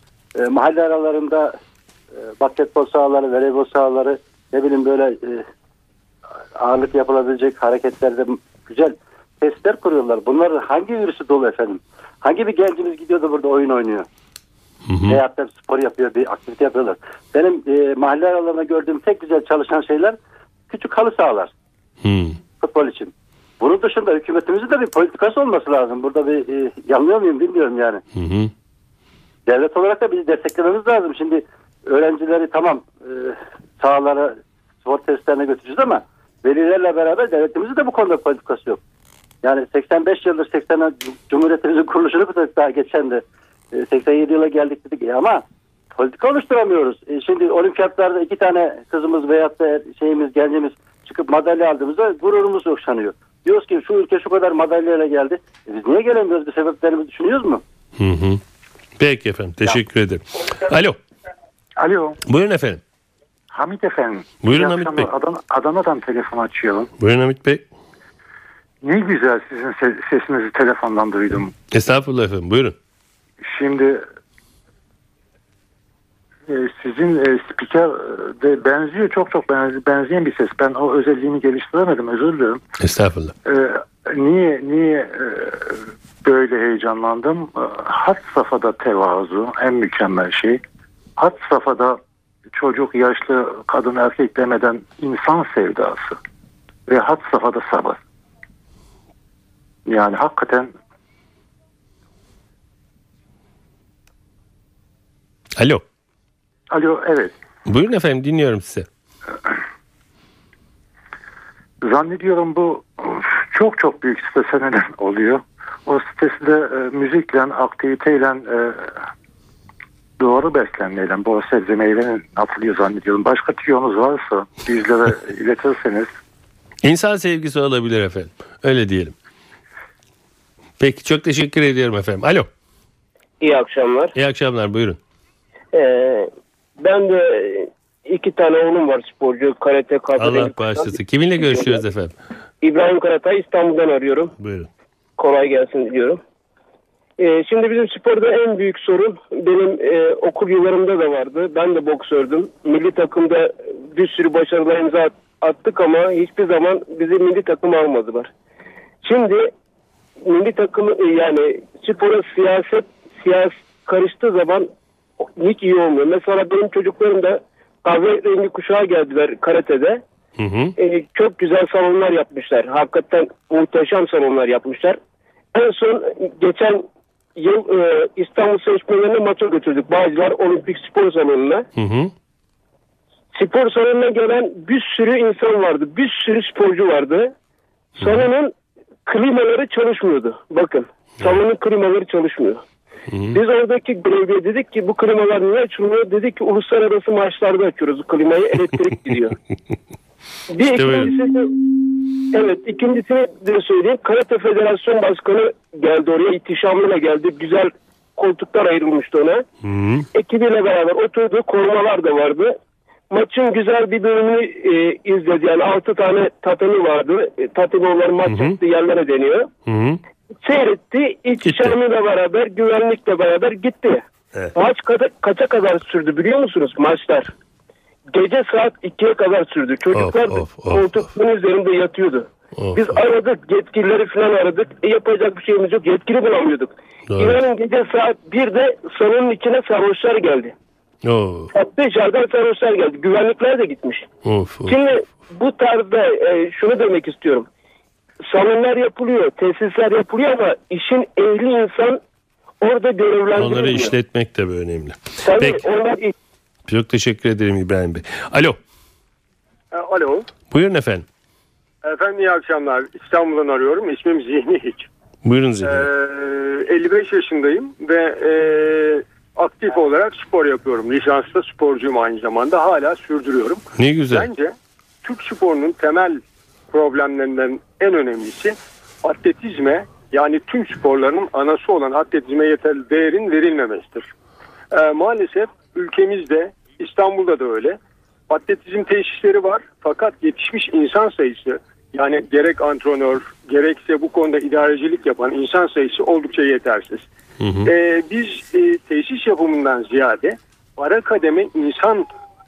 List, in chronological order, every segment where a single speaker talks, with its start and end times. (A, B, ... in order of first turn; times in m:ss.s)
0:00.4-0:01.6 A
0:02.4-0:05.4 A
0:06.6-0:14.1 A
0:14.9-0:15.2 B
0:15.1-0:20.2 A
0:20.7-0:21.5 A
0:22.0-0:22.4 B
0:22.6-0:28.0 A
0:28.2-0:28.5 B
0:29.4-0:38.8 A
0:39.4-0:45.4 A
0:45.9-0:57.6 A
0:58.0-0:58.4 B
0:59.0-1:01.0 B
1:01.8-1:02.2 C
1:02.2-1:02.8 B
1:03.5-1:06.9 C
1:04.4-1:05.1 B
1:07.0-1:07.6 B
1:08.8-1:11.5 C
1:11.7-1:12.7 B
1:13.4-1:14.0 C
1:16.5-1:22.6 C
1:22.8-1:23.3 B
1:23.4-1:30.6 C
1:31.2-1:32.0 C
1:32.5-1:36.2 C
1:36.9-1:38.0 C
1:39.9-1:40.7 C
1:45.6-1:45.8 B
1:46.7-1:47.3 C
1:47.6-1:48.9 B
1:51.8-1:58.9 C
2:00.2-2:06.1 C
2:06.8-2:09.1 B
2:10.8-2:12.5 B
2:13.4-2:14.1 D
2:14.1-2:15.0 B
2:15.7-2:16.3 D
2:16.8-2:21.8 D
2:20.2-2:22.1 B
2:22.6-2:24.3 D
2:24.4-2:24.7 B
2:25.2-2:26.2 D
2:27.2-2:38.3 D
2:39.0-2:39.5 D
2:40.2-2:44.7 D
2:45.4-2:50.0 D
2:50.4-2:50.7 B
2:50.8-2:55.0 D
2:55.5-2:56.8 D
2:57.4-3:01.6 D
3:01.8-3:02.1 B
3:03.3-3:07.3 D
3:08.0-3:08.3 B
3:08.0-3:08.5 D
3:09.0-3:12.6 D
3:13.1-3:13.4 B
3:13.3-3:19.4 D
3:20.5-3:21.5 D
3:20.6-3:21.1 B
3:22.3-3:29.4 D
3:29.6-3:30.1 B
3:30.1-3:32.5 D
3:33.1-3:39.5 D
3:38.2-3:38.6 B
3:39.6-3:40.0 B
3:40.4-3:44.0 D
3:41.4-3:41.7 B
3:44.5-3:47.3 D
3:48.1-4:00.5 D
3:49.9-3:51.0 B
3:52.6-3:53.0 B
3:57.1-3:57.4 B
4:01.0-4:01.5 B
4:01.5-4:04.1 D
4:04.2-4:04.8 B
4:04.6-4:07.5 D
4:08.3-4:12.0 D
4:12.6-4:13.9 D
4:13.4-4:15.6 B
4:15.2-4:16.1 D
4:16.7-4:18.6 B
4:19.7-4:20.3 E
4:20.5-4:21.0 B
4:21.8-4:24.9 E
4:25.2-4:25.9 B
4:25.6-4:44.1 E
4:33.8-4:34.3 B
4:44.7-4:57.1 E
4:57.4-4:57.7 B
4:57.6-5:02.1 E